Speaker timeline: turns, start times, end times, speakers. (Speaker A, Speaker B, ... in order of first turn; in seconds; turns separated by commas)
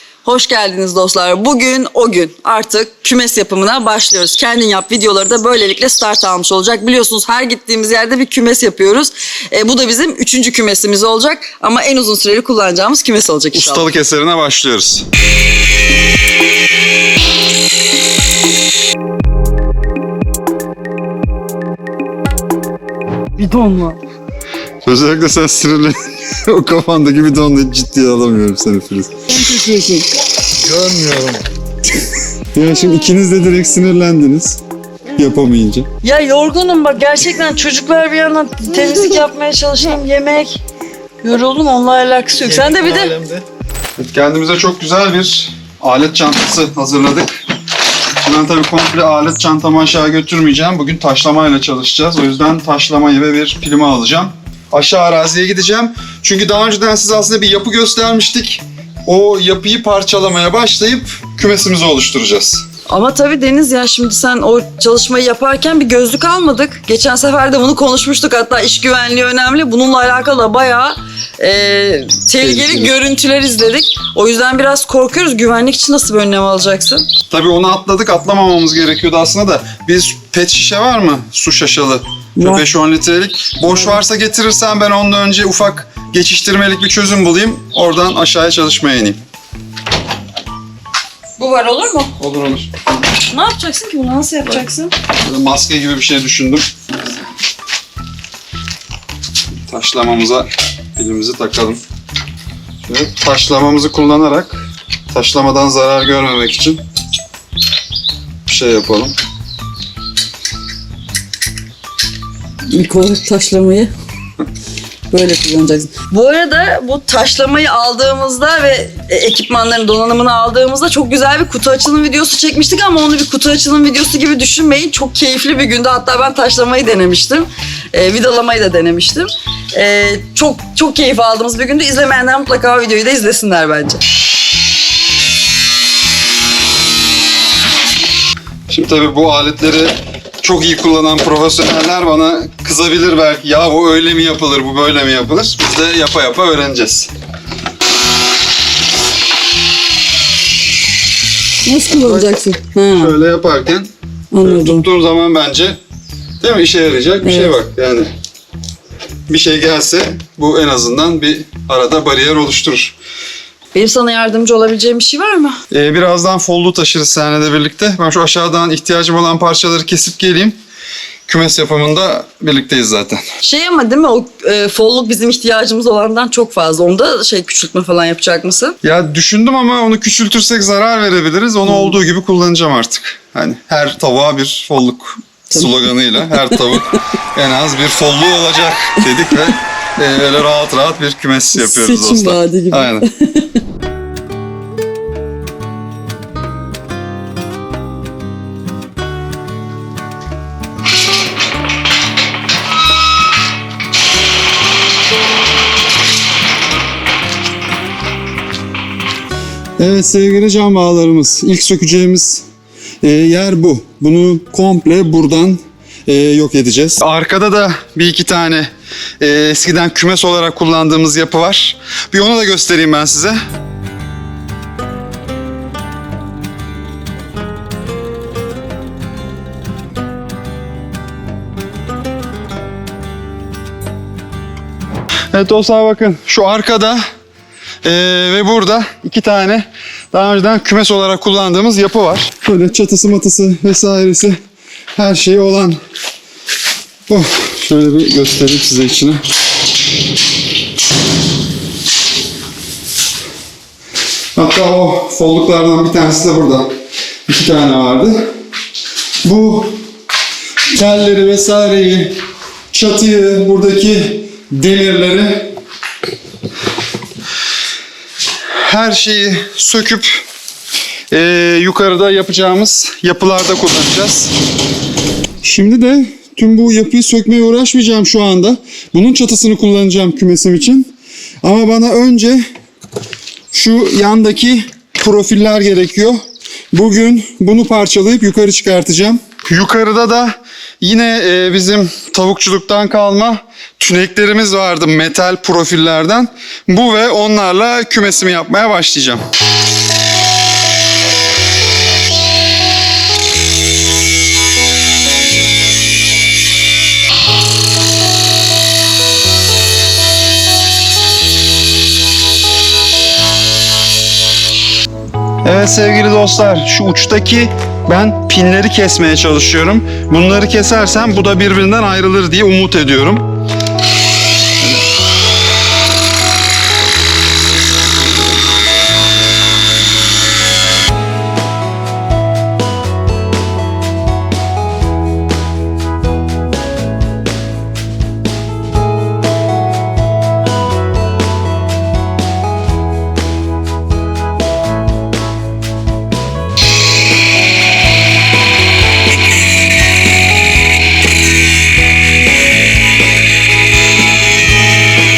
Speaker A: 0.2-13.9, Speaker B: 13.5-15.1, Speaker A: 23.4-24.0, Speaker B: 24.8-30.1, Speaker C: 30.5-31.4, Speaker B: 32.5-34.6, Speaker B: 35.1-35.9, Speaker A: 36.0-40.6, Speaker A: 41.2-43.1, Speaker C: 42.4-43.4, Speaker B: 44.0-47.4, Speaker B: 48.2-62.6, Speaker A: 62.9-77.1, Speaker B: 72.4-72.9, Speaker B: 77.3-89.2, Speaker A: 82.4-82.6, Speaker A: 83.7-84.0, Speaker A: 91.4-92.1, Speaker B: 92.2-92.7, Speaker A: 93.3-94.9, Speaker B: 95.2-96.7, Speaker B: 99.7-101.8, Speaker B: 102.8-106.8, Speaker B: 108.5-109.1, Speaker A: 112.7-113.9, Speaker A: 115.1-134.0, Speaker B: 138.7-147.1, Speaker A: 151.6-153.1, Speaker B: 151.9-152.3, Speaker B: 152.9-155.8, Speaker A: 154.3-154.9, Speaker B: 156.4-158.1, Speaker A: 157.2-157.5, Speaker B: 159.3-162.9, Speaker A: 163.7-165.6, Speaker B: 165.7-170.6, Speaker B: 171.3-173.2, Speaker A: 173.4-178.8, Speaker B: 178.8-193.0, Speaker A: 181.7-182.0, Speaker A: 185.5-186.9, Speaker A: 191.5-193.6, Speaker B: 209.8-212.4, Speaker B: 213.0-223.4, Speaker B: 235.3-237.1, Speaker B: 237.8-244.4, Speaker B: 244.9-245.8, Speaker B: 247.1-249.2, Speaker B: 254.3-258.3, Speaker B: 259.2-259.8, Speaker B: 260.7-265.5, Speaker B: 268.6-270.2, Speaker B: 271.1-274.3, Speaker B: 275.4-280.9, Speaker B: 281.4-282.5, Speaker B: 283.5-299.2, Speaker B: 315.4-323.2